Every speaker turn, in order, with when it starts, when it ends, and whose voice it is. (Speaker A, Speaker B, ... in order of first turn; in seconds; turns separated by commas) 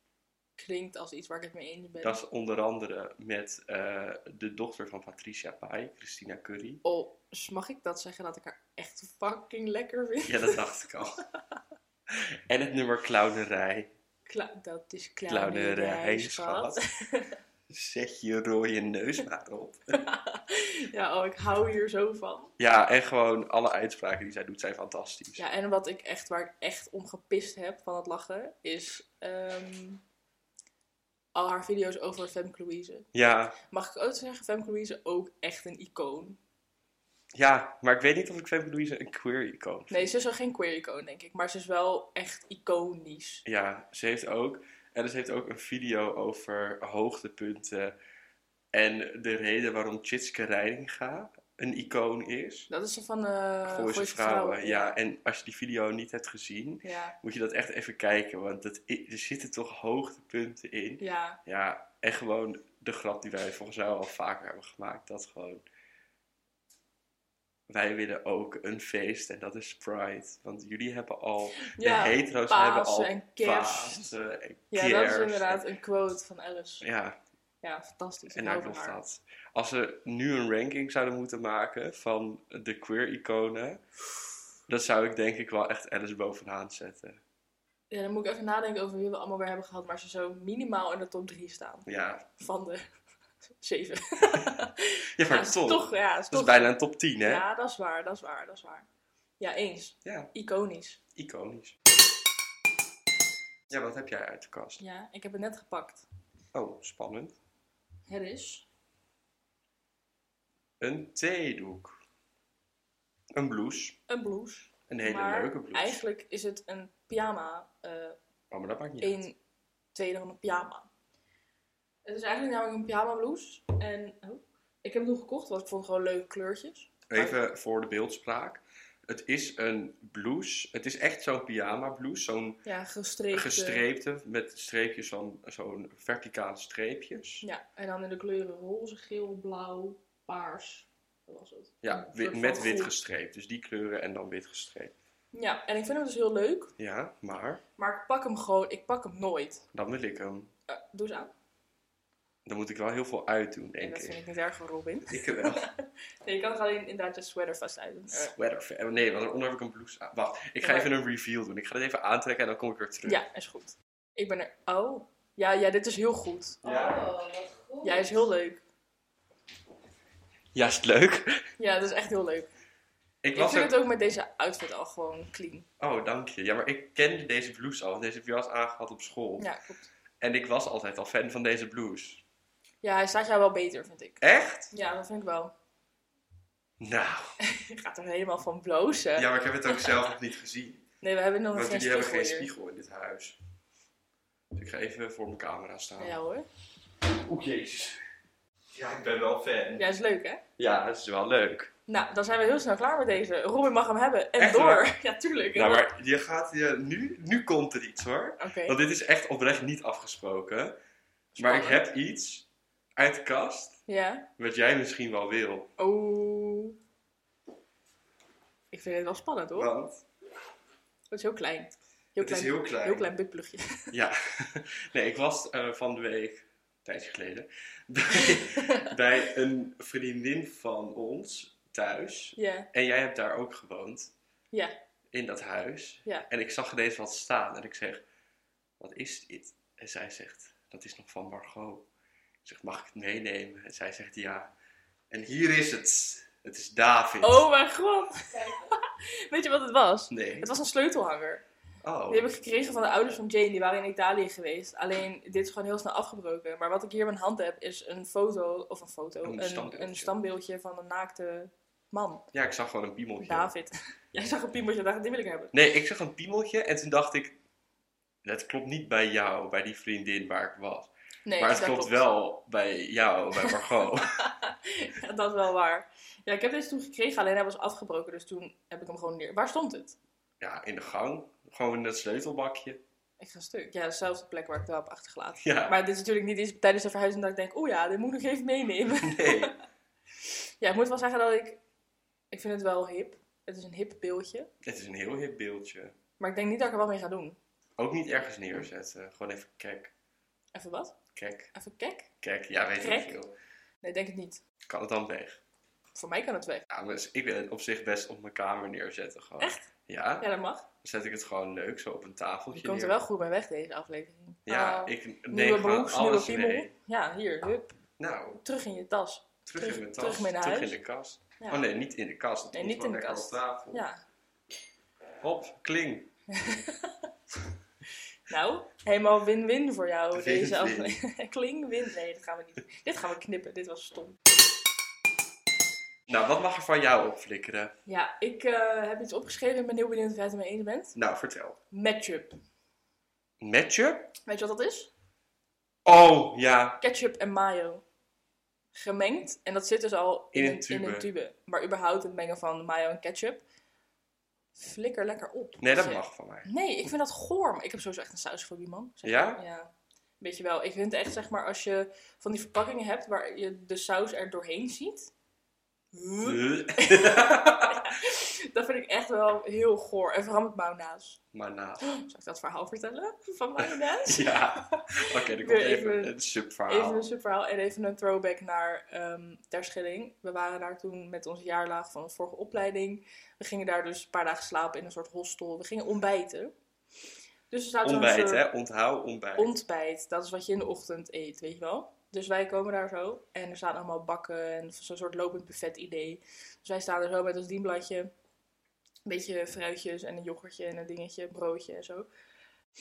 Speaker A: 0.6-2.2, Speaker B: 2.0-6.8, Speaker A: 6.8-10.6, Speaker B: 10.2-11.2, Speaker B: 12.1-13.9, Speaker A: 14.2-17.4, Speaker B: 15.3-16.8, Speaker B: 17.7-20.0, Speaker A: 19.9-22.5, Speaker B: 22.6-25.4, Speaker A: 25.4-30.0, Speaker A: 31.3-33.1, Speaker B: 33.1-33.5, Speaker A: 33.6-36.4, Speaker B: 37.3-40.1, Speaker A: 39.9-43.4, Speaker B: 43.4-47.9, Speaker B: 48.7-52.7, Speaker A: 52.7-54.9, Speaker B: 53.6-65.6, Speaker A: 56.8-57.1, Speaker A: 61.0-61.4, Speaker B: 67.7-75.6, Speaker A: 71.5-74.1, Speaker A: 74.7-76.9, Speaker B: 76.8-77.2, Speaker A: 77.6-79.0, Speaker B: 78.3-83.8, Speaker B: 84.7-87.2, Speaker A: 87.9-91.9, Speaker B: 91.9-92.3, Speaker A: 92.4-92.8, Speaker A: 93.6-98.9, Speaker B: 95.2-97.4, Speaker A: 99.4-101.0, Speaker B: 100.0-100.3, Speaker B: 101.1-101.8, Speaker B: 103.7-104.8, Speaker A: 104.8-106.0, Speaker B: 106.5-107.3, Speaker A: 108.1-108.7, Speaker B: 110.8-112.0, Speaker B: 113.3-114.0, Speaker A: 114.1-118.2, Speaker B: 114.9-116.0, Speaker B: 118.5-119.2, Speaker A: 119.0-119.4, Speaker A: 119.9-120.9, Speaker A: 122.0-127.4, Speaker B: 127.1-132.6, Speaker A: 132.6-133.8, Speaker B: 133.3-137.4, Speaker A: 137.4-142.9, Speaker B: 141.8-144.9, Speaker A: 145.3-146.7, Speaker B: 146.8-147.6, Speaker A: 147.8-149.6, Speaker B: 149.7-150.5, Speaker A: 150.7-151.3, Speaker B: 152.4-154.2, Speaker A: 153.8-158.3, Speaker B: 155.1-155.7, Speaker B: 158.1-163.2, Speaker A: 160.6-160.9, Speaker A: 163.1-166.8, Speaker B: 166.6-167.2, Speaker A: 167.8-168.6, Speaker B: 170.5-171.4, Speaker A: 171.6-172.5, Speaker B: 173.2-173.8, Speaker A: 173.3-175.7, Speaker B: 175.8-179.5, Speaker A: 179.4-179.9, Speaker B: 180.2-182.2, Speaker A: 182.8-185.5, Speaker B: 184.2-184.7, Speaker B: 186.8-187.3, Speaker A: 187.4-190.0, Speaker B: 189.2-190.8, Speaker A: 191.0-192.5, Speaker B: 191.5-193.4, Speaker B: 194.5-196.2, Speaker A: 196.0-196.4, Speaker B: 197.1-198.0, Speaker B: 198.8-199.8, Speaker A: 199.8-200.4, Speaker B: 200.6-201.7, Speaker A: 201.9-205.9, Speaker B: 204.4-204.9, Speaker B: 205.5-210.8, Speaker A: 208.4-208.8, Speaker A: 211.3-211.8, Speaker B: 211.4-213.8, Speaker A: 213.9-214.3, Speaker B: 214.4-215.7, Speaker A: 215.8-216.8, Speaker A: 218.7-219.7, Speaker B: 219.5-220.0, Speaker A: 221.1-223.9, Speaker B: 222.2-223.1, Speaker B: 223.9-234.1, Speaker A: 228.1-228.9, Speaker A: 232.4-232.7, Speaker B: 235.1-238.0, Speaker B: 238.8-241.8, Speaker B: 242.4-244.5, Speaker B: 245.1-247.5, Speaker A: 247.2-251.4, Speaker B: 250.1-250.5, Speaker B: 251.8-253.1, Speaker A: 252.1-262.2, Speaker B: 259.2-260.1, Speaker B: 262.3-263.5, Speaker A: 263.2-265.5, Speaker B: 265.5-267.4, Speaker B: 268.2-274.2, Speaker A: 271.2-272.0, Speaker A: 273.4-280.0, Speaker B: 280.4-282.8, Speaker A: 283.2-289.6, Speaker B: 285.4-285.8, Speaker B: 288.9-289.5, Speaker A: 290.6-291.6, Speaker A: 292.3-294.5, Speaker B: 294.6-296.0, Speaker A: 296.2-297.4, Speaker B: 297.8-299.9, Speaker A: 300.5-301.0, Speaker B: 301.1-301.5, Speaker A: 301.5-302.1, Speaker B: 302.2-303.3, Speaker A: 302.8-303.2, Speaker A: 303.8-304.4, Speaker B: 304.6-305.4, Speaker A: 305.9-306.6, Speaker B: 306.7-313.0, Speaker A: 309.4-309.7, Speaker A: 310.2-310.6, Speaker A: 312.5-317.8, Speaker B: 314.5-316.7, Speaker B: 318.0-318.4, Speaker A: 318.4-320.8, Speaker B: 319.5-323.8, Speaker A: 321.4-321.6, Speaker A: 322.5-324.0, Speaker B: 325.2-326.1, Speaker A: 326.3-327.0, Speaker A: 328.3-334.2, Speaker B: 330.1-331.0, Speaker B: 336.1-337.7, Speaker A: 337.9-340.9, Speaker B: 340.9-341.6, Speaker A: 341.7-342.4, Speaker B: 343.4-344.1, Speaker A: 344.2-344.9, Speaker B: 345.8-346.8, Speaker A: 346.8-347.8, Speaker A: 348.7-353.4, Speaker B: 350.3-351.1, Speaker A: 354.5-365.1, Speaker B: 355.6-356.5, Speaker B: 359.0-359.4, Speaker A: 365.9-371.2, Speaker B: 366.2-367.9, Speaker B: 371.3-371.9, Speaker A: 371.8-376.1, Speaker B: 373.6-377.0, Speaker A: 376.7-386.5, Speaker A: 387.5-388.5, Speaker B: 387.8-389.5, Speaker A: 389.4-398.1, Speaker A: 399.1-402.1